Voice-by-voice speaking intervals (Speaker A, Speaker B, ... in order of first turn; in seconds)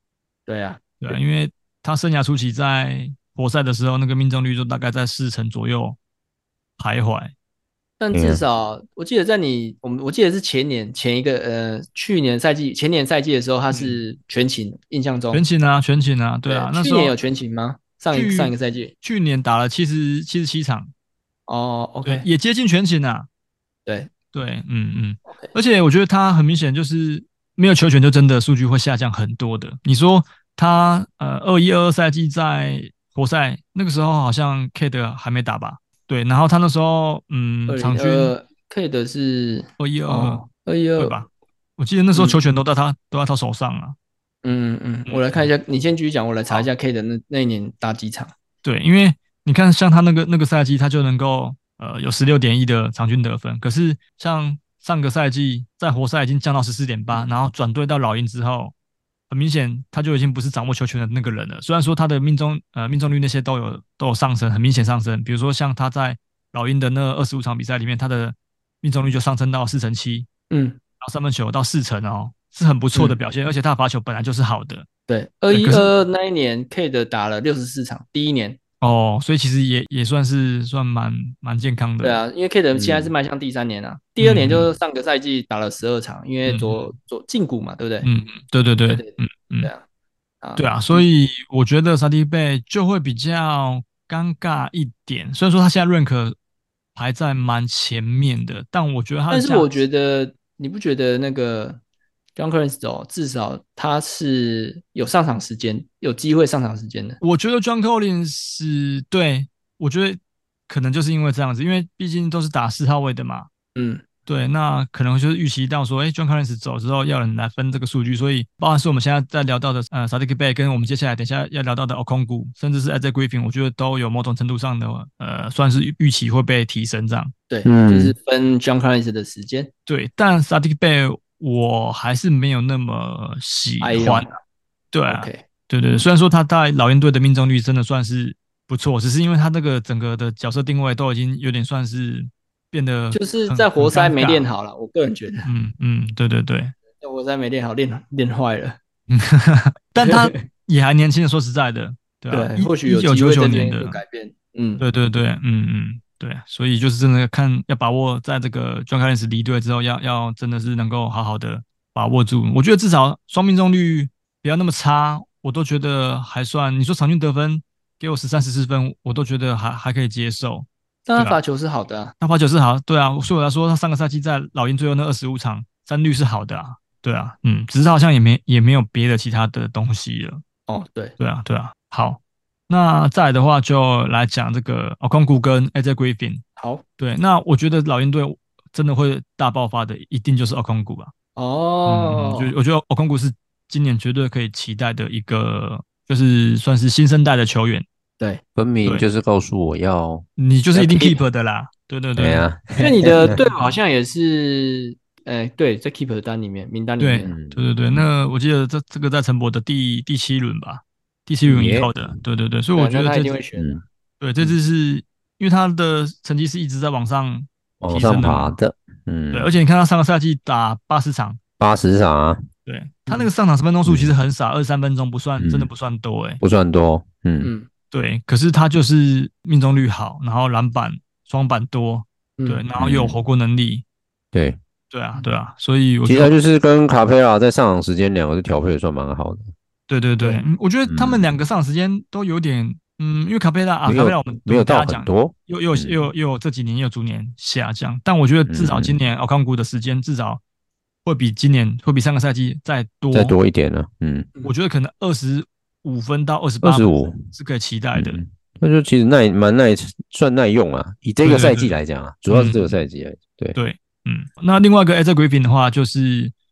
Speaker A: 0.5-1.2, 8.0-15.4, 16.5-18.9, 21.5-22.2, 37.7-41.1, 44.4-48.3, 70.5-70.8, 75.1-78.6, 82.0-88.1, 90.4-91.0, 99.3-101.8, 102.4-107.2, 113.7-114.0, 127.5-129.7, 133.8-134.3, 135.1-135.4, 143.1-145.5, 146.9-148.8, 150.0-150.4, 152.3-154.8, 171.1-172.1, 180.7-181.2, 186.6-186.8, 191.4-192.5, 202.8-207.3, 212.8-213.8, 227.4-227.7
Speaker B: 1.0-6.0, 6.8-7.3, 13.7-14.0, 15.3-17.1, 18.1-20.9, 22.0-23.3, 24.3-38.3, 39.8-40.5, 41.0-44.0, 45.0-45.5, 48.6-58.7, 59.3-70.3, 71.0-74.9, 75.5-75.9, 78.8-82.2, 84.2-84.7, 86.5-86.8, 88.0-89.7, 90.6-96.4, 96.9-99.8, 107.2-113.5, 114.3-127.3, 129.9-134.3, 134.9-144.4, 145.4-146.7, 149.1-154.0, 154.8-171.4, 172.2-180.4, 181.2-186.4, 187.0-191.1, 191.9-197.9, 200.4-202.5, 203.3-203.7, 207.0-213.3, 214.2-218.6, 219.3-221.4, 222.7-226.4, 227.9-233.8, 234.9-236.3, 239.9-250.4, 251.0-253.4, 254.4-258.2, 261.2-261.7, 262.3-262.8, 263.5-266.3
Speaker C: 8.1-8.4, 82.7-83.1, 127.6-128.1, 198.6-201.2, 202.2-203.4, 207.2-208.0, 211.4-211.9, 213.5-213.8, 217.8-219.5, 221.6-222.4, 223.8-224.1, 225.4-225.7, 226.4-227.5, 232.8-233.2, 234.3-234.6, 236.0-239.5, 240.9-241.2, 243.9-246.0, 248.5-248.9, 253.1-254.3, 256.6-257.2, 257.9-263.6